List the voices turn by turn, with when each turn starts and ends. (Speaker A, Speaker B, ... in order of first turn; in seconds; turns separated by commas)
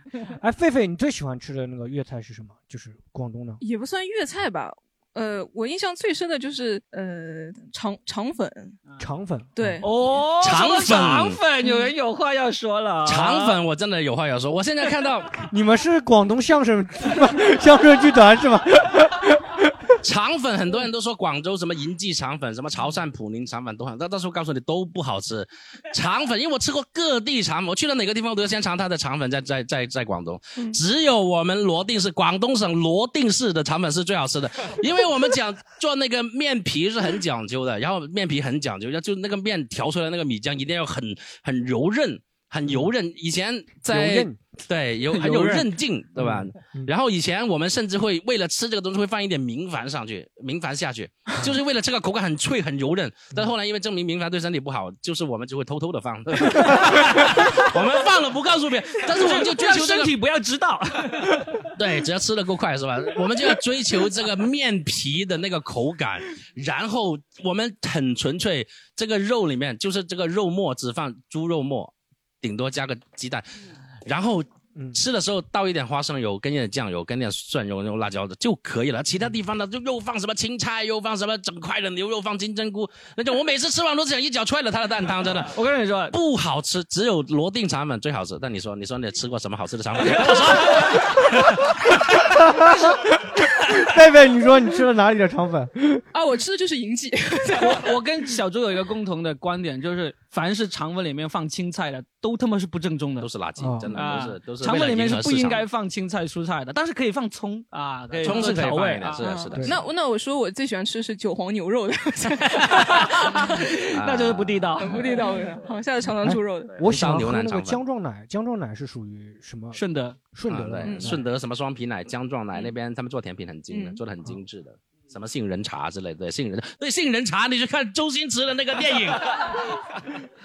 Speaker A: 0.2-3.6, Speaker B: 3.6-8.8, Speaker A: 9.0-9.8, Speaker B: 9.6-9.9, Speaker C: 9.8-13.6, Speaker D: 10.4-11.4, Speaker B: 11.6-11.9, Speaker D: 13.0-15.5, Speaker A: 15.4-19.9, Speaker D: 20.0-60.1, Speaker A: 43.8-44.4, Speaker C: 45.2-45.6, Speaker A: 46.2-46.9, Speaker C: 56.7-57.5, Speaker C: 59.1-61.7, Speaker D: 61.7-85.6, Speaker C: 85.5-86.1, Speaker D: 86.1-91.7, Speaker C: 90.2-90.9, Speaker A: 92.2-96.0, Speaker B: 96.1-98.0, Speaker C: 97.5-103.3, Speaker D: 103.2-105.6, Speaker A: 103.6-103.9, Speaker C: 103.9-109.2, Speaker D: 108.2-109.8, Speaker B: 109.2-113.6, Speaker C: 112.5-115.2, Speaker D: 113.9-115.1, Speaker B: 114.8-116.8, Speaker A: 116.2-121.2, Speaker D: 116.8-117.8, Speaker C: 119.7-120.2, Speaker D: 120.5-130.0, Speaker B: 120.8-121.1, Speaker B: 123.7-124.0